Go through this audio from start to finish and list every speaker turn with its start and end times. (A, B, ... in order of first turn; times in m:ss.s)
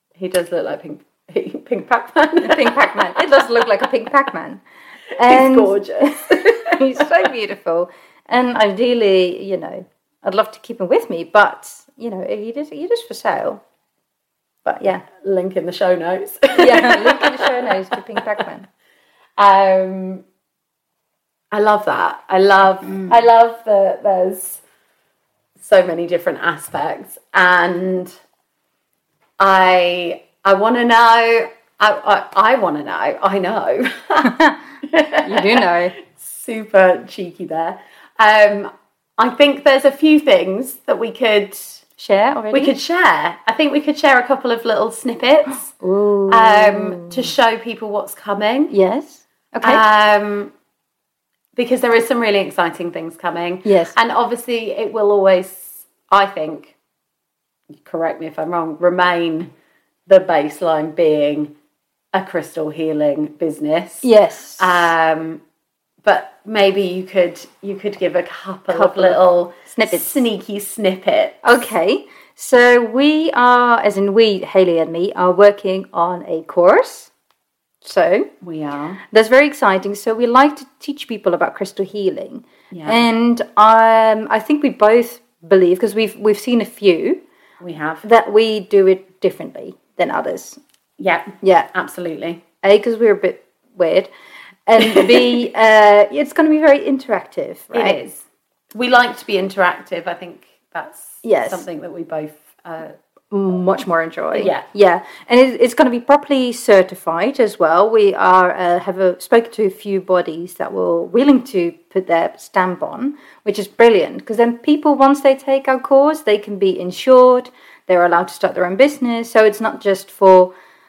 0:00.2-0:03.6 A
0:02.4-0:04.6 B
0:05.2-0:13.6 B
0:05.2-0:07.1 A
0:14.6-0:15.1 B
0:15.2-0:18.4 A
0:16.6-0:18.7 B
0:19.4-0:20.2 A
0:21.5-0:24.6 A
0:22.9-0:23.1 B
0:25.6-0:28.1 A
0:29.4-0:41.8 A
0:34.2-0:34.6 B
0:35.2-0:36.0 B
0:42.0-0:42.7 B
0:42.5-0:45.7 A
0:45.8-0:47.3 B
0:46.3-0:48.7 A
0:48.7-0:49.8 B
0:49.6-0:50.5 A
0:51.6-0:56.8 A
0:53.6-0:54.0 B
0:57.8-0:59.5 A
1:00.1-1:01.5 A
1:02.1-1:04.1 A
1:04.0-1:04.9 B
1:04.6-1:05.4 A
1:06.0-1:11.6 A
1:08.7-1:10.2 B
1:11.4-1:17.1 B
1:17.8-1:18.3 B
1:18.4-1:19.0 A
1:19.1-1:27.2 B
1:22.7-1:23.1 A
1:27.6-1:28.0 A
1:28.0-1:30.6 B
1:31.0-1:32.4 A
1:31.4-1:31.7 B
1:32.6-1:34.1 B
1:34.7-1:38.0 B
1:34.9-1:35.2 A
1:37.7-1:43.0 A
1:41.2-1:41.6 B
1:43.3-2:00.5 B
1:44.3-1:44.6 A